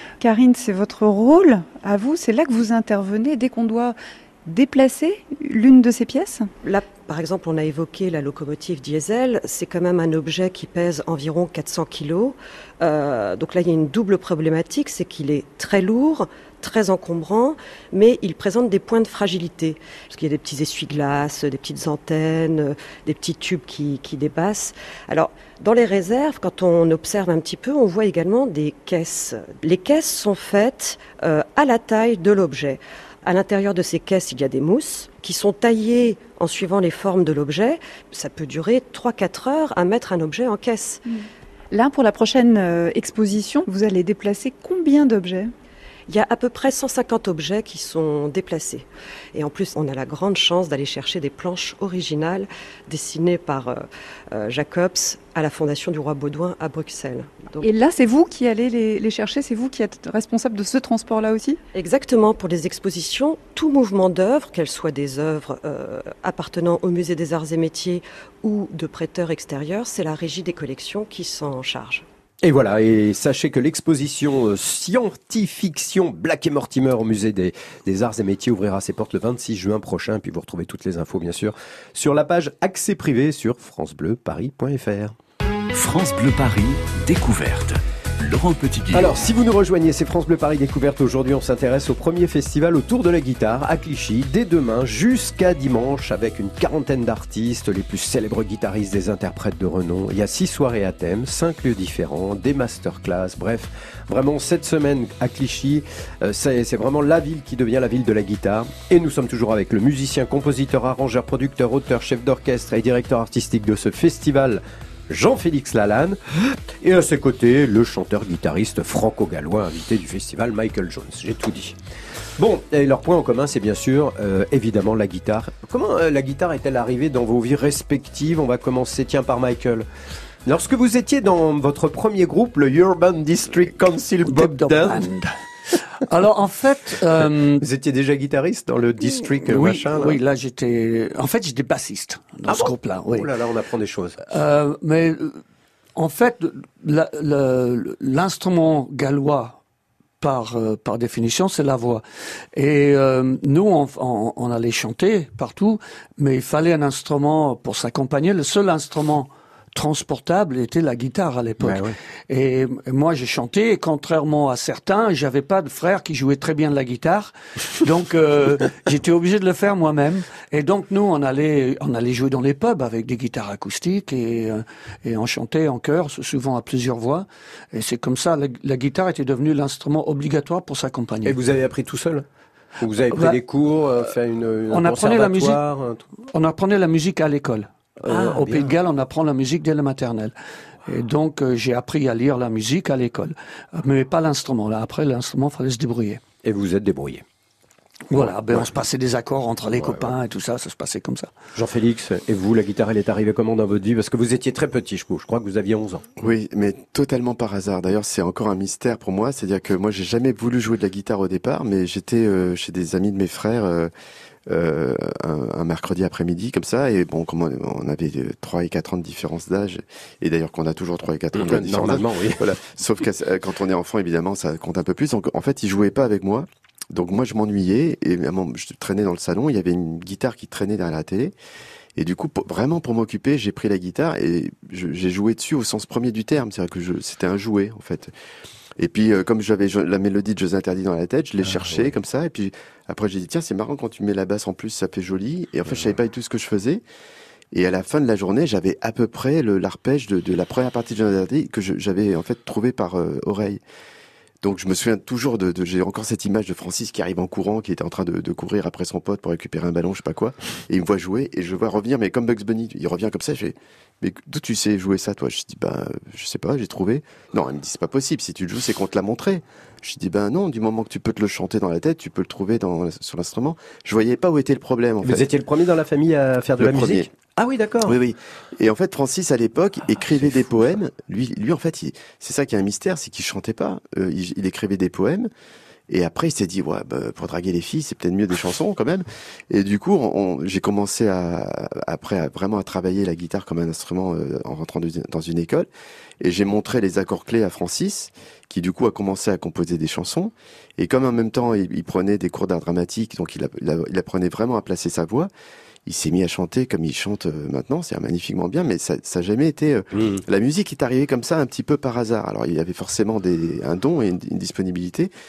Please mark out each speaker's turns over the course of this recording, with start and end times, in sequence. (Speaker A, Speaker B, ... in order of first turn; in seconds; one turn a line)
Speaker A: 0.2-6.5
Speaker B: 6.6-41.0
Speaker A: 41.7-45.5
Speaker B: 46.1-57.7
Speaker A: 57.6-61.6
Speaker B: 61.7-72.1
Speaker C: 72.4-85.2
Speaker D: 85.7-89.2
Speaker C: 88.9-121.8
Speaker C: 122.4-129.9
Speaker C: 130.4-135.1
Speaker E: 134.2-135.3
Speaker E: 136.0-137.6
Speaker C: 137.6-140.2
Speaker E: 139.5-143.3
Speaker C: 142.5-144.2
Speaker E: 144.3-145.4
Speaker E: 146.0-149.6
Speaker E: 150.2-152.0
Speaker E: 152.6-181.4
Speaker C: 161.6-162.0
Speaker C: 181.2-182.3
Speaker C: 182.8-186.1
Speaker E: 184.7-185.6
Speaker E: 186.3-190.3
Speaker C: 188.1-188.7
Speaker E: 190.9-196.2
Speaker C: 196.4-197.2
Speaker E: 198.1-201.3
Speaker C: 199.8-200.1
Speaker C: 201.6-206.1
Speaker F: 206.2-213.9
Speaker F: 214.5-231.3
Speaker C: 221.3-222.4
Speaker F: 232.0-238.1
Speaker F: 238.8-246.8
Speaker C: 241.4-241.9
Speaker F: 247.5-253.6
Speaker F: 254.4-275.3
Speaker C: 275.0-278.0
Speaker F: 276.6-277.1
Speaker F: 277.8-285.3
Speaker F: 285.9-295.7
Speaker F: 296.2-305.3
Speaker F: 305.9-315.1
Speaker C: 310.0-310.2